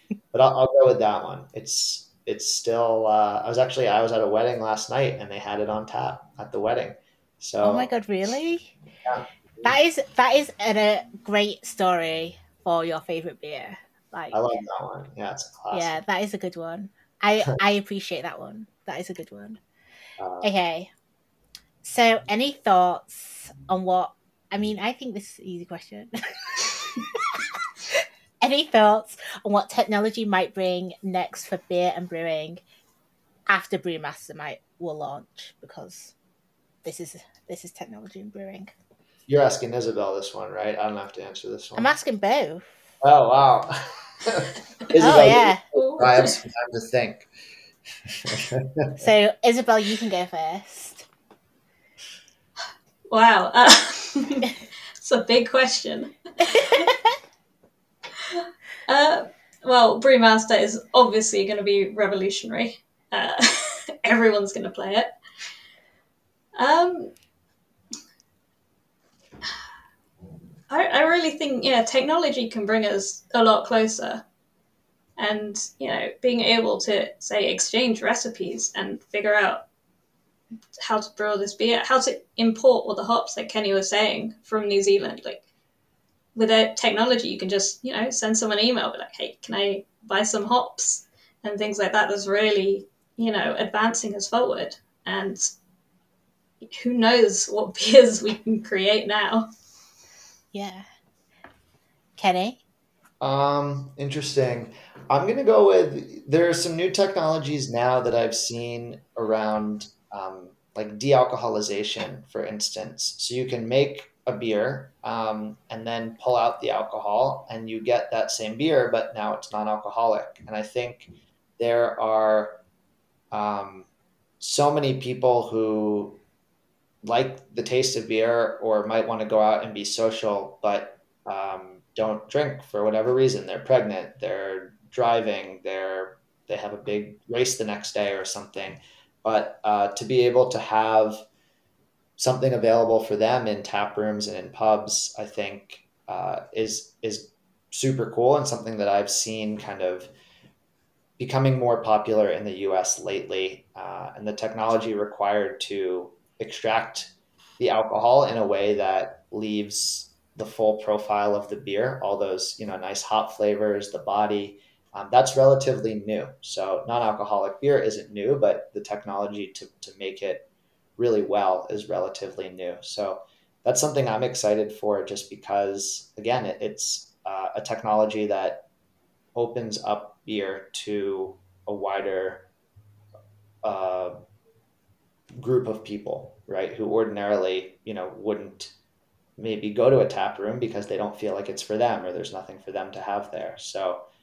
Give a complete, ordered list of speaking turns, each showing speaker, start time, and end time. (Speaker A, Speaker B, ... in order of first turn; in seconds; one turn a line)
Speaker A: 0.3-7.9
Speaker B: 7.6-8.8
Speaker A: 9.1-9.8
Speaker B: 9.6-14.6
Speaker A: 14.3-16.0
Speaker B: 15.7-19.6
Speaker A: 20.2-20.5
Speaker B: 20.4-20.9
Speaker B: 21.8-32.6
Speaker B: 33.5-36.1
Speaker B: 36.8-38.7
Speaker A: 39.3-41.9
Speaker B: 41.8-42.7
Speaker A: 43.0-47.3
Speaker B: 45.0-45.6
Speaker C: 45.7-46.3
Speaker A: 48.1-49.1
Speaker B: 49.0-51.1
Speaker C: 53.1-56.9
Speaker C: 58.2-65.1
Speaker C: 66.6-67.1
Speaker C: 70.7-74.2
Speaker C: 75.2-79.6
Speaker C: 80.8-85.4
Speaker C: 86.3-95.5
Speaker C: 96.7-99.5
Speaker B: 100.5-100.8
Speaker B: 102.2-102.6
Speaker A: 103.2-122.6
Speaker A: 123.3-123.9
Speaker A: 124.4-126.2
Speaker A: 127.0-141.2
Speaker A: 142.2-150.1
Speaker A: 151.2-178.7
Speaker A: 179.3-182.5
Speaker A: 183.6-184.2
Speaker A: 185.4-188.7
Speaker A: 189.4-194.0